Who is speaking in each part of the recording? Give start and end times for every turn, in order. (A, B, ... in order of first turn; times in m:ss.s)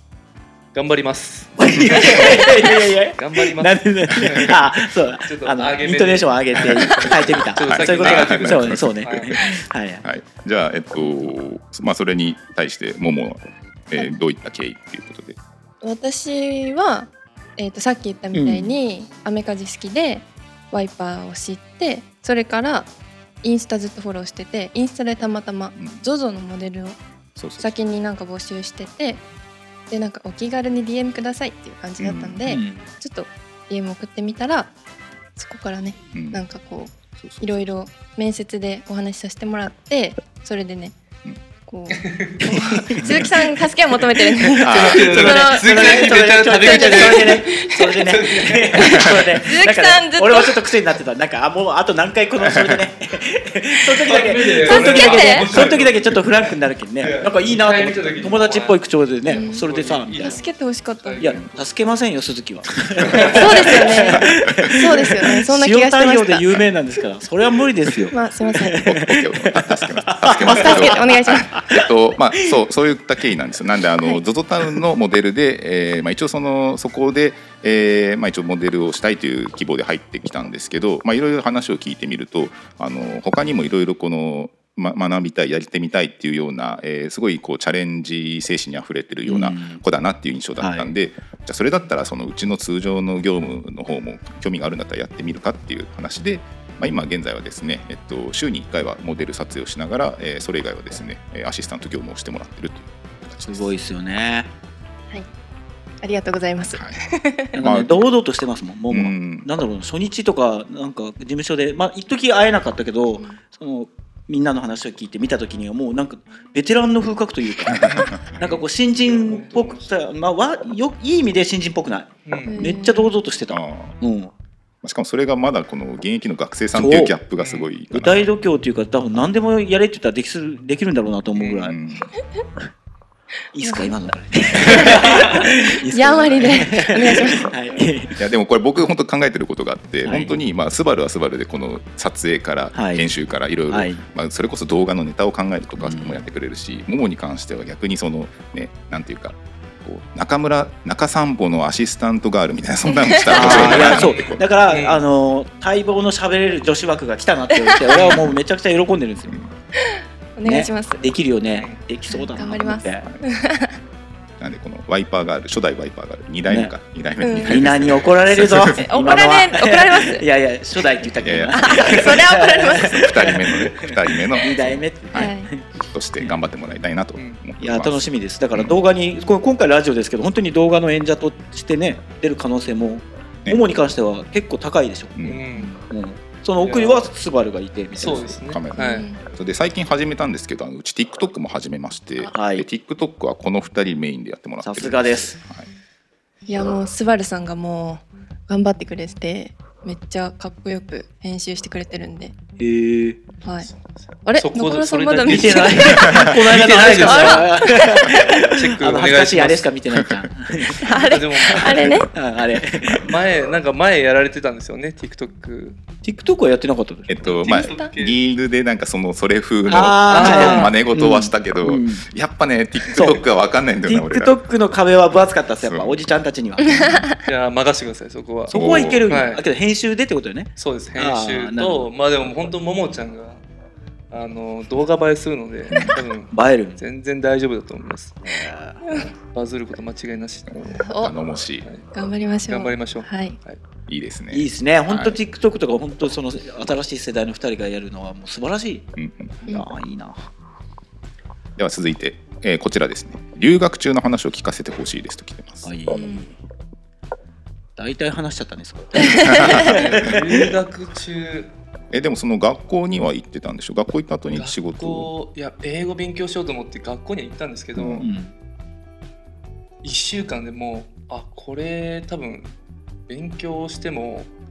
0:00.7-0:04.7 A
0:01.6-0:10.0 B
0:05.2-0:09.4 A
0:07.6-0:09.5 C
0:10.0-0:15.4 C
0:15.8-0:22.9 D
0:18.3-0:18.8 B
0:23.4-0:27.0 D
0:25.7-0:26.0 C
0:27.4-0:27.7 C
0:27.6-0:29.2 D
0:29.9-0:34.7 D
0:32.0-0:32.4 C
0:32.5-0:32.9 B
0:35.4-0:41.0 D
0:36.1-0:36.4 C
0:37.1-0:37.6 C
0:41.6-0:47.8 D
0:41.9-0:42.4 A
0:42.5-0:43.3 B
0:43.0-0:43.3 C
0:44.6-0:45.2 C
0:44.7-0:49.0 A
0:45.2-1:00.4 B
0:48.7-0:50.6 D
0:52.4-0:52.8 C
0:54.0-1:01.7 A
0:54.6-0:55.5 D
0:59.3-1:01.3 D
1:01.2-1:11.8 B
1:03.1-1:03.9 A
1:03.1-1:03.5 C
1:03.3-1:06.5 D
1:04.2-1:04.8 C
1:08.1-1:08.8 D
1:08.8-1:43.7 C
1:10.4-1:11.6 D
1:29.2-1:29.8 B
1:30.6-1:30.9 B
1:43.4-1:44.5 B
1:46.0-1:47.6 D
1:46.7-1:47.0 C
1:47.5-1:48.1 C
1:47.5-2:04.3 B
1:48.9-1:49.5 C
1:57.8-1:58.2 C
1:58.3-1:59.9 A
2:02.2-2:02.8 A
2:02.5-2:03.1 D
2:03.5-2:04.0 C
2:04.8-2:08.3 C
2:06.7-2:07.2 B
2:07.4-2:07.7 A
2:07.9-2:11.8 B
2:11.3-2:11.7 A
2:11.6-2:12.1 C
2:13.5-2:18.2 B
2:13.6-2:13.9 D
2:14.6-2:17.5 D
2:14.7-2:15.1 A
2:18.2-2:34.4 C
2:20.0-2:20.3 B
2:22.7-2:23.1 B
2:23.7-2:24.0 B
2:25.8-2:26.2 B
2:33.0-2:33.6 D
2:33.3-2:39.4 B
2:33.4-2:35.0 A
2:37.9-2:38.3 A
2:39.8-2:41.0 D
2:40.4-2:43.1 B
2:41.5-2:41.8 A
2:42.1-2:43.8 D
2:44.4-2:48.8 C
2:46.5-2:46.7 B
2:47.2-2:47.7 D
2:47.4-2:56.4 B
2:48.7-2:50.2 D
2:51.2-2:58.8 C
2:51.5-2:53.0 D
2:55.1-2:55.5 D
2:57.2-2:57.4 A
2:57.6-3:08.3 B
3:05.2-3:05.4 C
3:05.2-3:05.8 A
3:06.6-3:07.1 A
3:08.0-3:09.0 A
3:08.2-3:15.7 C
3:08.7-3:09.2 D
3:12.3-3:12.6 B
3:14.6-3:15.4 B
3:16.5-3:22.3 D
3:22.6-3:23.2 B
3:23.4-3:23.7 D
3:23.6-3:27.8 A
3:24.2-3:26.3 D
3:25.2-3:30.9 B
3:27.0-3:28.1 D
3:28.4-3:29.7 A
3:30.8-3:32.1 D
3:30.9-3:31.9 A
3:31.5-3:33.1 B
3:33.0-3:35.8 A
3:36.0-3:37.1 B
3:37.1-3:44.3 C
3:37.2-3:38.2 A
3:37.4-3:37.9 D
3:39.7-3:42.0 B
3:40.1-3:40.7 A
3:42.9-3:43.2 B
3:43.9-3:46.9 B
3:45.6-3:46.0 C
3:46.6-3:47.2 D
3:46.7-3:47.0 C
3:47.2-3:49.4 A
3:48.5-3:51.9 B
3:48.5-3:49.2 C
3:50.6-3:53.4 A
3:54.1-4:00.9 A
3:55.7-3:56.0 C
3:56.3-3:56.8 B
3:58.2-3:58.9 B
4:00.6-4:01.2 D
4:01.0-4:01.6 C
4:01.6-4:01.9 A
4:01.9-4:03.4 D
4:02.5-4:03.6 A
4:03.9-4:05.2 C
4:04.3-4:08.9 B
4:09.0-4:09.4 C
4:09.5-4:10.3 B
4:11.6-4:15.7 C
4:15.6-4:16.4 B
4:15.9-4:16.3 D
4:17.8-4:20.2 B
4:19.1-4:19.5 D
4:19.2-4:20.1 C
4:19.6-4:21.5 A
4:21.9-4:25.1 C
4:24.3-4:28.1 A
4:27.8-4:28.1 C
4:28.0-4:28.3 B
4:29.8-4:32.5 A
4:33.1-4:34.3 A